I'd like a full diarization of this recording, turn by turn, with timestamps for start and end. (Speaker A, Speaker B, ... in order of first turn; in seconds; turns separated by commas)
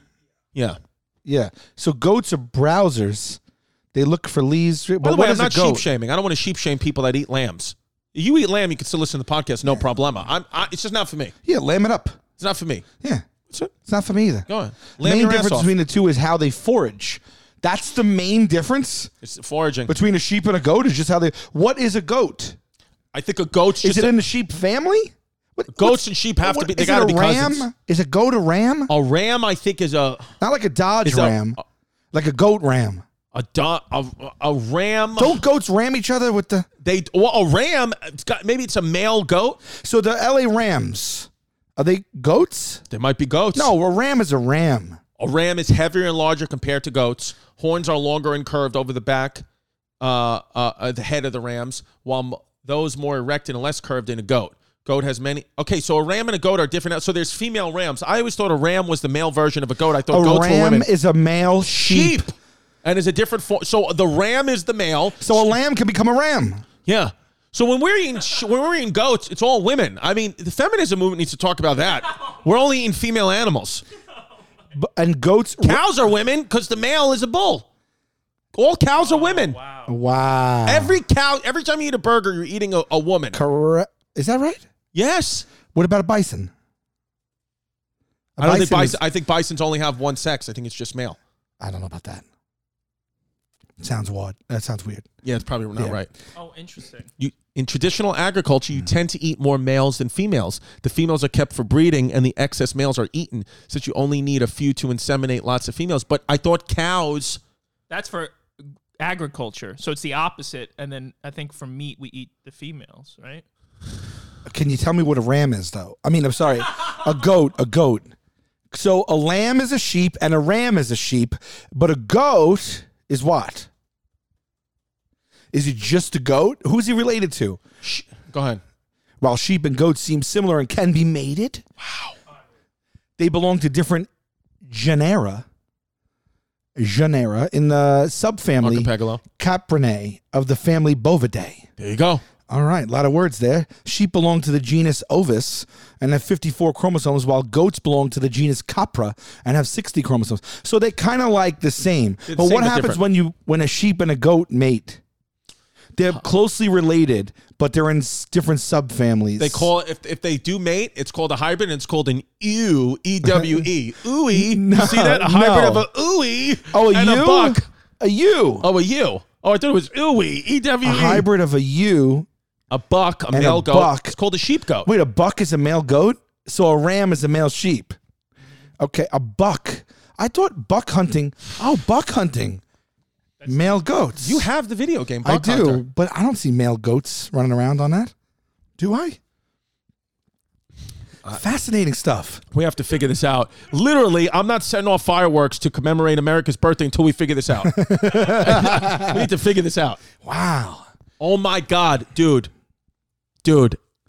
Speaker A: 1.2-3.4, Speaker A: 3.9-5.9, Speaker B: 5.0-11.3, Speaker A: 11.5-12.2, Speaker B: 12.4-12.8, Speaker A: 13.9-14.5, Speaker B: 14.5-15.7, Speaker A: 15.0-19.1, Speaker B: 19.2-19.9, Speaker A: 19.9-22.6, Speaker B: 23.1-24.1, Speaker A: 23.8-28.9, Speaker B: 25.7-27.7, Speaker B: 28.9-30.3, Speaker A: 30.4-31.6, Speaker B: 31.1-31.6, Speaker A: 32.1-33.0, Speaker B: 33.3-35.4, Speaker A: 35.2-36.7, Speaker B: 36.8-39.6, Speaker A: 39.7-42.8, Speaker B: 42.9-43.7, Speaker A: 43.5-45.0, Speaker B: 45.2-49.4, Speaker B: 50.0-60.9, Speaker A: 60.1-62.3, Speaker B: 61.7-62.3, Speaker B: 62.8-65.5, Speaker A: 65.2-66.6, Speaker B: 66.8-73.8, Speaker A: 74.7-75.8, Speaker B: 75.6-77.7, Speaker B: 78.5-79.6, Speaker C: 79.0-79.9, Speaker A: 79.9-81.0, Speaker B: 80.7-83.4, Speaker A: 83.3-84.6, Speaker B: 84.9-85.5, Speaker A: 85.7-86.5, Speaker A: 88.4-89.0, Speaker B: 88.4-91.2, Speaker A: 91.6-92.2, Speaker A: 93.8-95.1, Speaker B: 95.2-96.1, Speaker C: 96.4-97.1, Speaker B: 97.2-107.4, Speaker C: 107.9-108.3, Speaker C: 109.0-113.5, Speaker A: 114.5-118.1, Speaker A: 118.7-123.7, Speaker A: 125.5-127.6, Speaker B: 127.8-128.6, Speaker A: 129.2-131.9, Speaker A: 133.2-134.1, Speaker A: 134.6-135.5, Speaker A: 136.8-141.6, Speaker B: 138.6-139.2, Speaker B: 141.8-142.2, Speaker A: 142.5-155.0, Speaker B: 152.3-153.0, Speaker A: 156.0-159.7, Speaker B: 159.4-167.7, Speaker A: 163.3-163.7, Speaker A: 164.3-165.8, Speaker A: 166.7-168.7, Speaker B: 168.6-171.3, Speaker A: 170.8-172.3, Speaker B: 172.7-174.9, Speaker A: 173.3-174.2, Speaker A: 174.8-178.0, Speaker A: 178.8-182.6, Speaker C: 183.4-183.8, Speaker A: 183.4-184.5, Speaker B: 184.2-185.8, Speaker A: 185.2-188.1, Speaker A: 188.8-189.2, Speaker A: 191.2-192.4, Speaker B: 192.5-200.0, Speaker A: 197.7-199.3, Speaker A: 200.2-200.9, Speaker B: 201.2-202.5, Speaker B: 203.4-203.8